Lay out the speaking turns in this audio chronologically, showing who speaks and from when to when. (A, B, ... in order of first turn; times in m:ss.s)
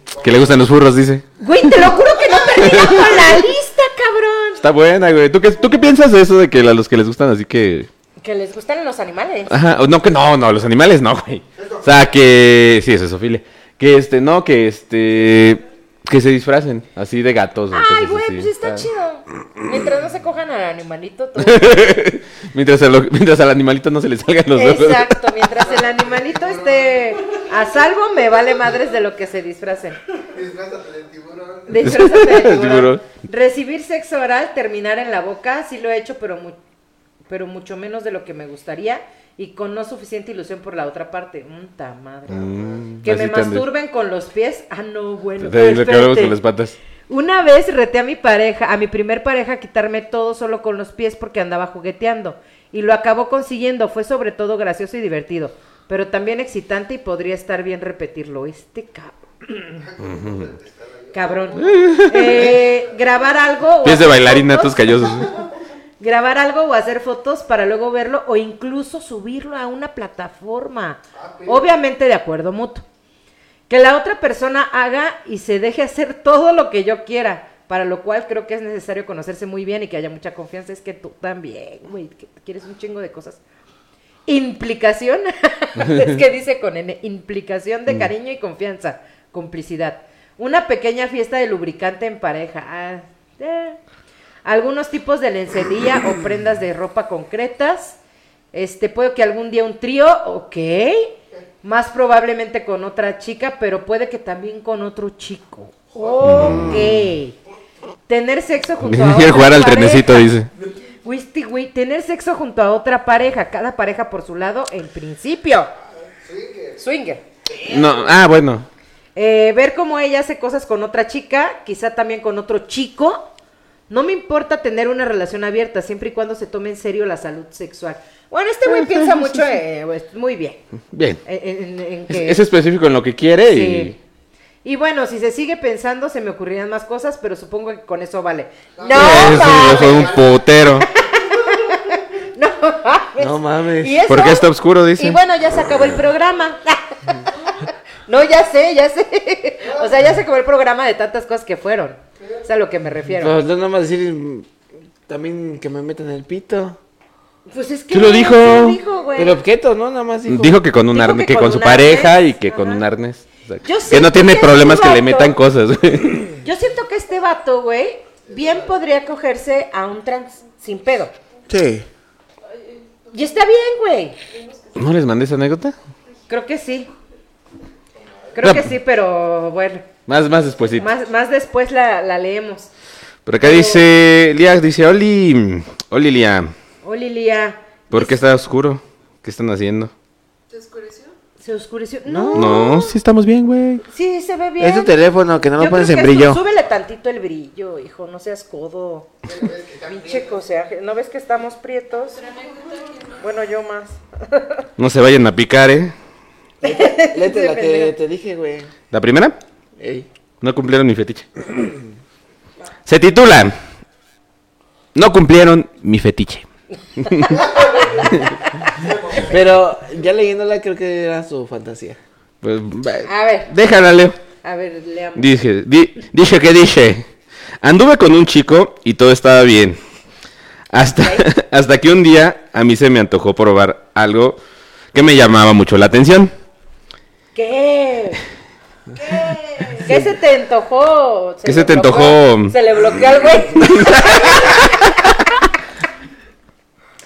0:00.1-0:00.4 A
0:00.2-0:01.2 B
0:01.4-0:04.6 C
0:02.6-0:03.3 B
0:04.6-0:07.9 B
0:08.2-0:09.6 C
0:09.5-0:18.8 B
0:11.6-0:11.8 A
0:17.7-0:22.0 C
0:21.4-0:25.2 B
0:24.5-0:30.0 C
0:25.7-0:27.0 A
0:30.3-0:31.8 A
0:31.7-0:36.6 C
0:31.8-0:33.0 B
0:37.3-0:42.5 C
0:42.3-0:43.7 B
0:43.0-0:46.4 C
0:45.4-0:46.8 B
0:47.1-0:59.8 C
0:59.8-1:02.1 A
1:00.1-1:00.4 B
1:01.1-1:05.4 C
1:01.6-1:02.6 B
1:03.8-1:05.3 B
1:06.0-1:12.8 C
1:11.2-1:11.7 A
1:13.7-1:23.4 C
1:24.2-1:33.8 C
1:34.4-1:38.0 C
1:38.5-1:47.4 C
1:46.1-1:46.7 A
1:46.2-1:46.8 B
1:46.4-1:46.8 D
1:48.1-1:50.3 C
1:48.8-1:50.5 B
1:51.0-1:55.7 C
1:56.2-1:56.8 A
1:56.8-1:57.2 C
1:57.6-1:58.7 B
1:59.2-2:03.3 C
2:03.9-2:10.6 C
2:10.9-2:11.2 B
2:11.2-2:12.4 C
2:12.1-2:14.0 B
2:13.5-2:13.9 C
2:14.6-2:20.3 C
2:18.8-2:20.0 A
2:18.9-2:20.9 B
2:20.9-2:33.4 C
2:23.2-2:24.0 D
2:24.1-2:25.2 B
2:33.2-2:34.5 D
2:35.1-2:36.8 D
2:37.5-2:39.4 C
2:37.9-2:38.8 B
2:39.1-2:40.6 D
2:40.3-2:46.4 B
2:40.9-2:42.8 C
2:43.6-2:45.4 C
2:46.4-2:51.1 C
2:51.5-2:51.9 D
2:53.1-2:54.2 C
2:54.3-2:54.9 E
2:54.7-2:55.7 B
2:56.3-2:56.9 C
2:58.3-2:59.9 C
2:58.4-2:58.7 B
3:00.1-3:00.9 B
3:00.8-3:02.7 C
3:03.2-3:06.5 B
3:03.4-3:03.8 C
3:06.8-3:08.2 C
3:07.9-3:09.9 B
3:10.5-3:11.1 E
3:11.4-3:13.0 C
3:12.0-3:12.6 D
3:12.3-3:13.8 B
3:13.9-3:14.9 C
3:14.6-3:16.4 D
3:15.6-3:19.1 C
3:19.2-3:20.4 A
3:19.8-3:22.2 C
3:22.2-3:23.2 E
3:23.1-3:24.6 C
3:24.8-3:25.9 B
3:26.6-3:27.9 C
3:26.6-3:28.7 D
3:28.9-3:29.4 B
3:29.8-3:30.1 D
3:30.4-3:31.7 B
3:32.8-3:33.6 B
3:34.9-3:36.4 B
3:37.0-3:37.4 B
3:37.0-3:38.8 C
3:37.4-3:38.2 A
3:38.7-3:39.3 A
3:39.2-3:42.0 D
3:42.4-3:44.2 B
3:43.0-3:43.5 C
3:44.4-3:45.3 C
3:45.2-3:47.1 B
3:47.6-3:49.8 B
3:50.7-3:54.4 B
3:51.0-3:51.3 C
3:54.9-3:56.3 B
3:57.3-3:58.2 C
3:59.0-4:05.1 C
4:01.4-4:02.5 B
4:03.6-4:04.7 B